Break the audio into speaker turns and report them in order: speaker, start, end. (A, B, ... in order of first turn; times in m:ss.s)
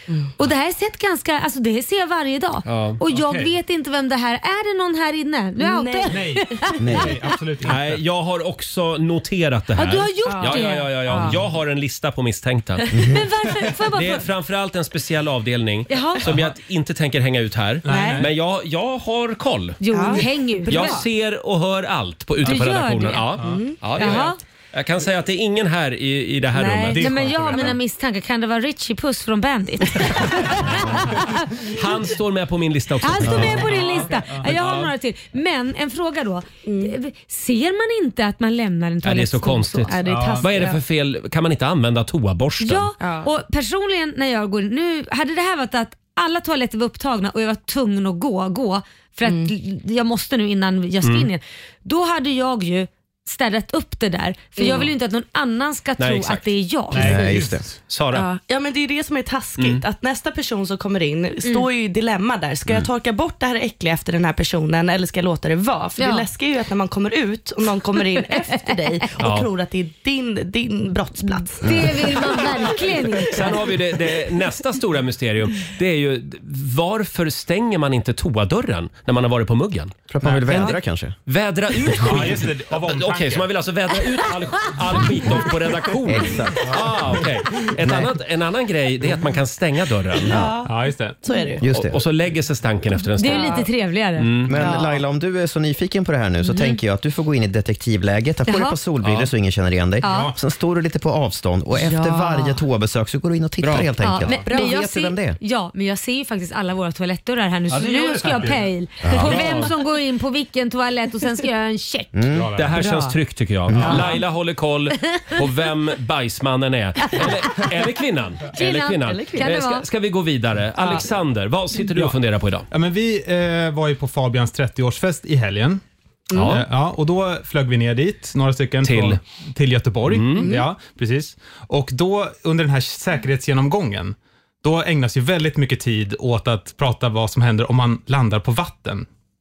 0:00.4-0:07.1 A
0:02.7-0:03.0 B
0:03.1-0:03.5 C
0:05.6-0:06.7 D
0:06.1-0:08.0 C
0:06.8-0:07.2 E
0:07.6-0:12.9 B
0:09.8-0:11.3 A
0:10.3-0:11.3 D
0:12.9-0:13.2 E
0:13.0-0:14.3 A
0:13.9-0:27.0 B
0:15.9-0:16.3 A
0:16.2-0:16.5 C
0:17.8-0:18.3 C
0:17.9-0:18.3 D
0:19.8-0:21.0 A
0:19.9-0:21.0 D
0:22.4-0:23.3 A
0:23.4-0:24.0 D
0:24.0-0:24.4 A
0:26.6-0:31.6 A
0:26.9-0:27.8 C
0:31.7-0:34.9 B
0:33.0-0:40.0 A
0:33.7-0:34.5 C
0:36.7-0:36.9 D
0:39.0-0:42.9 B
0:39.9-0:40.8 D
0:40.0-0:40.5 C
0:42.6-0:57.2 A
0:43.0-0:43.3 D
0:49.2-0:49.5 D
0:51.0-0:51.3 B
0:54.6-0:54.9 D
0:56.0-0:56.5 B
0:56.9-0:57.7 C
0:57.0-0:57.6 E
0:57.9-0:58.3 B
0:58.1-1:13.0 D
0:59.6-0:59.8 B
1:06.0-1:06.3 A
1:09.2-1:09.5 B
1:11.2-1:13.6 A
1:11.6-1:12.0 E
1:13.3-1:20.0 B
1:20.1-1:21.2 E
1:20.2-1:20.7 C
1:21.3-1:30.4 B
1:22.0-1:23.5 C
1:26.1-1:26.8 E
1:27.8-1:28.1 E
1:30.3-1:31.6 D
1:30.3-1:30.6 E
1:30.7-1:31.2 C
1:31.6-1:32.0 E
1:31.7-1:34.6 B
1:33.2-1:34.3 A
1:33.2-1:33.7 D
1:34.5-1:45.4 E
1:34.5-1:35.0 D
1:36.4-1:36.8 A
1:38.5-1:38.8 A
1:39.0-1:39.3 B
1:40.0-1:40.3 A
1:40.0-1:40.4 C
1:41.8-1:42.6 D
1:43.6-1:43.9 B
1:44.0-1:52.1 A
1:47.7-1:48.7 C
1:49.0-1:49.3 E
1:49.2-1:49.7 B
1:49.2-1:49.7 C
1:52.1-1:52.6 E
1:52.3-1:52.8 C
1:52.6-2:02.7 B
1:52.8-1:53.1 D
1:53.7-1:54.0 E
1:53.8-1:54.2 C
1:58.5-1:59.8 A
1:59.1-1:59.5 D
2:02.7-2:05.8 C
2:06.3-2:06.6 B
2:06.4-2:19.1 C
2:08.8-2:09.2 B
2:10.1-2:10.5 B
2:10.4-2:10.7 D